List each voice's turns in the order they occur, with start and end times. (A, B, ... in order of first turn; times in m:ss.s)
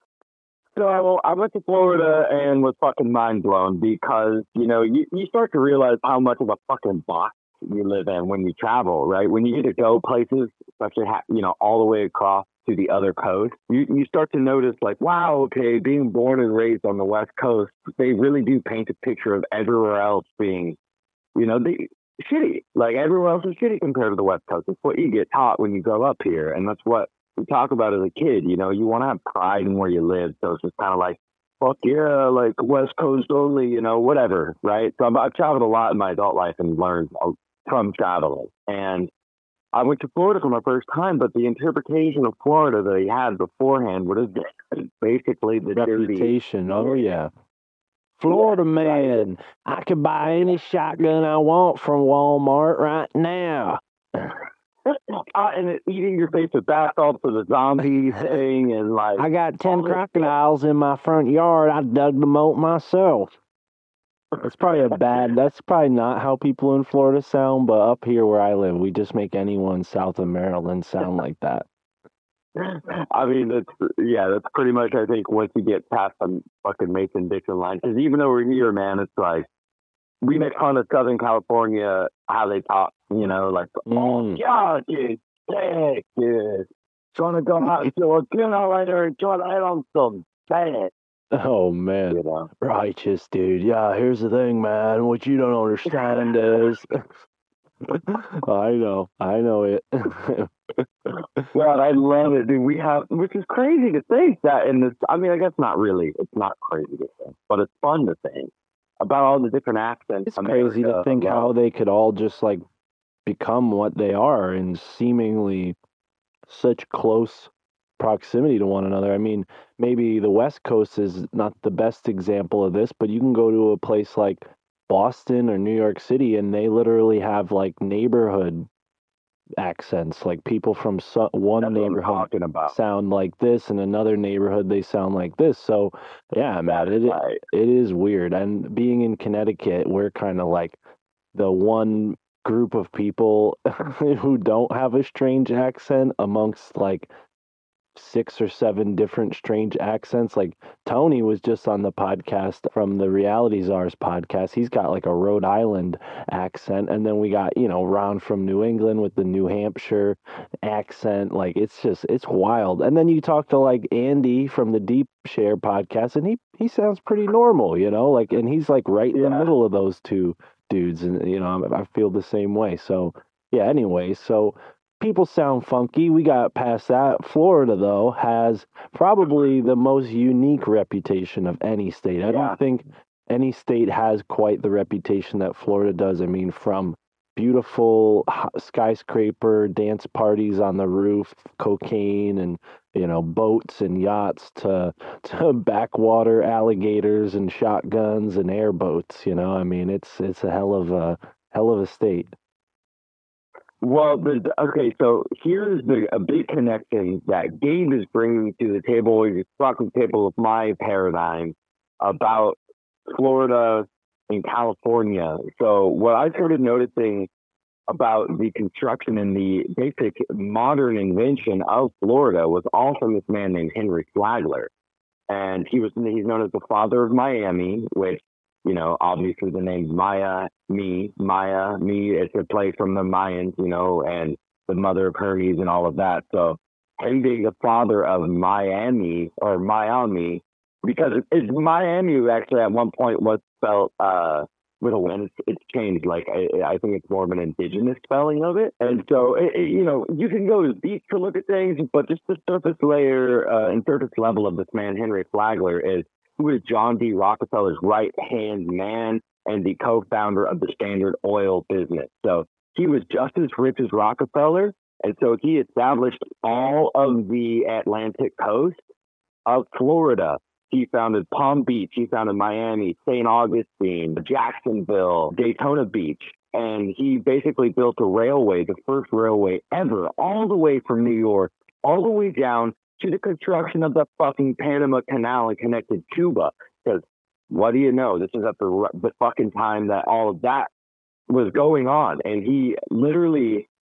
0:00.7-0:20.8 A
0:21.4-0:39.1 A
0:39.7-0:47.0 A
0:45.7-0:47.3 B
0:48.2-0:54.4 B
0:48.3-0:49.2 A
0:54.8-1:00.2 A
0:59.2-1:03.3 B
1:04.3-1:04.9 A
1:04.4-1:11.6 B
1:12.6-1:19.5 A
1:20.2-1:30.9 A
1:23.9-1:24.4 B
1:31.3-1:37.0 B
1:32.1-1:32.5 A
1:37.9-1:41.4 B
1:41.5-1:51.5 A
1:50.2-1:52.6 B
1:53.2-1:55.8 B
1:56.5-2:08.7 B
2:09.6-2:20.8 B
2:11.6-2:12.7 A
2:16.7-2:17.4 A
2:21.3-2:27.1 B
2:27.9-3:22.3 B
2:49.1-2:49.5 A
3:02.2-3:02.6 A
3:23.8-3:37.3 A
3:37.9-3:44.7 A
3:45.3-4:28.8 A
4:29.4-4:50.7 A
4:51.3-4:53.7 A